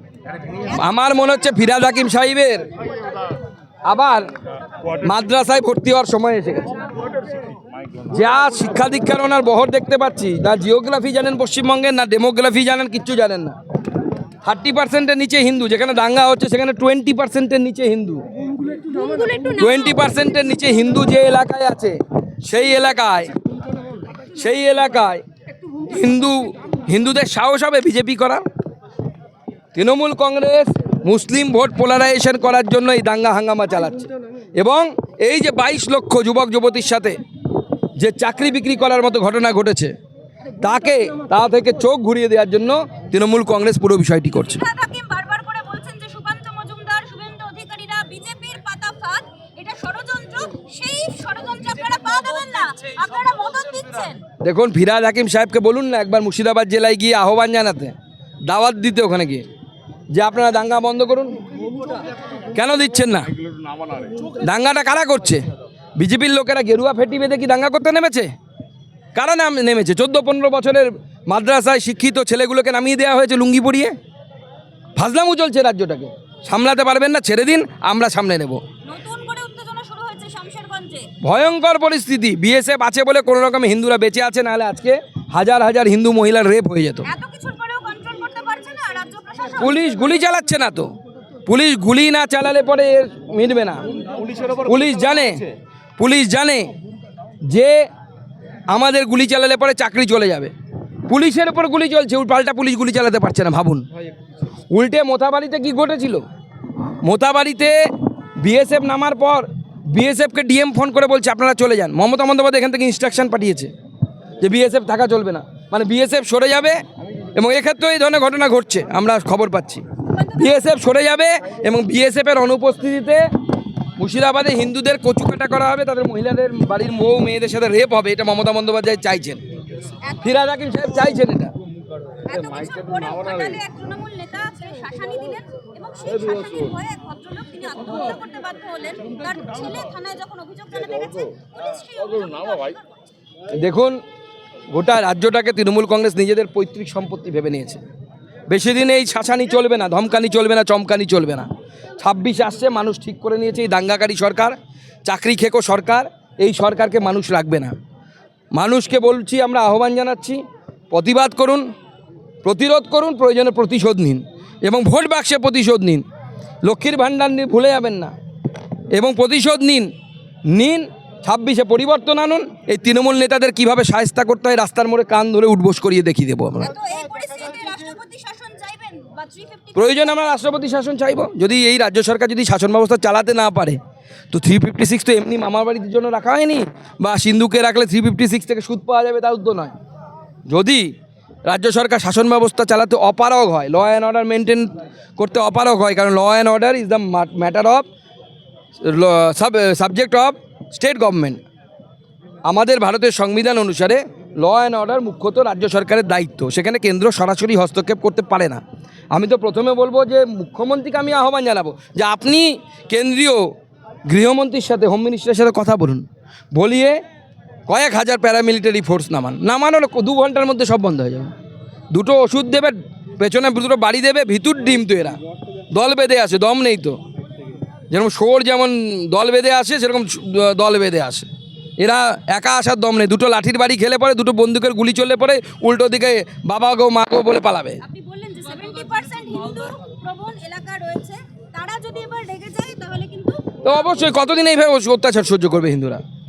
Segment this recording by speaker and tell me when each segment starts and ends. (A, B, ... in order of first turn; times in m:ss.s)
0:00.7-0:02.6 A
0:03.8-0:04.3 A
0:05.0-0:06.7 A
0:08.0-0:13.6 A
0:14.4-0:18.2 A
0:18.8-0:20.6 B
0:19.6-0:23.3 A
0:24.3-0:25.2 A
0:25.8-0:28.4 A
0:29.7-0:37.2 A
0:38.0-0:39.9 A
0:40.6-0:44.6 A
0:44.3-0:54.2 B
0:54.4-0:57.9 A
0:58.4-0:59.4 A
1:00.1-1:01.4 A
1:02.5-1:03.3 A
1:04.3-1:05.4 A
1:06.0-1:08.3 A
1:09.1-1:14.0 A
1:15.0-1:18.6 A
1:18.8-1:21.1 B
1:21.2-1:27.1 A
1:27.0-1:29.9 B
1:29.6-1:30.9 A
1:31.4-1:33.8 A
1:34.4-1:35.5 A
1:36.0-1:36.7 A
1:37.5-1:37.8 A
1:38.7-1:40.5 A
1:41.1-1:43.8 A
1:44.7-1:46.2 A
1:47.0-1:47.8 A
1:48.4-1:53.7 A
1:54.4-1:56.8 A
1:57.3-1:59.8 A
2:00.1-2:00.7 B
2:00.4-2:03.2 A
2:04.0-2:09.4 A
2:10.0-2:10.9 B
2:10.2-2:11.5 A
2:12.2-2:23.0 B
2:23.5-2:24.0 A
2:24.7-2:27.8 A
2:28.5-2:31.5 A
2:32.0-2:37.7 A
2:38.5-2:41.6 A
2:42.4-2:46.0 A
2:46.6-2:48.1 A
2:48.9-2:49.9 A
2:50.5-2:56.7 A
2:56.6-3:00.5 B
2:59.7-3:03.8 A
3:04.3-3:09.8 A
3:10.5-3:10.9 A
3:11.4-3:17.9 A
3:18.8-3:21.4 A
3:22.4-3:28.6 A
3:29.1-3:33.4 A
3:34.1-3:37.0 A
3:37.7-3:41.3 A
3:41.9-3:45.2 A
3:45.7-3:47.0 A
3:47.9-3:51.3 A
3:51.8-3:57.8 A
3:57.8-4:04.0 B
4:03.6-4:06.0 A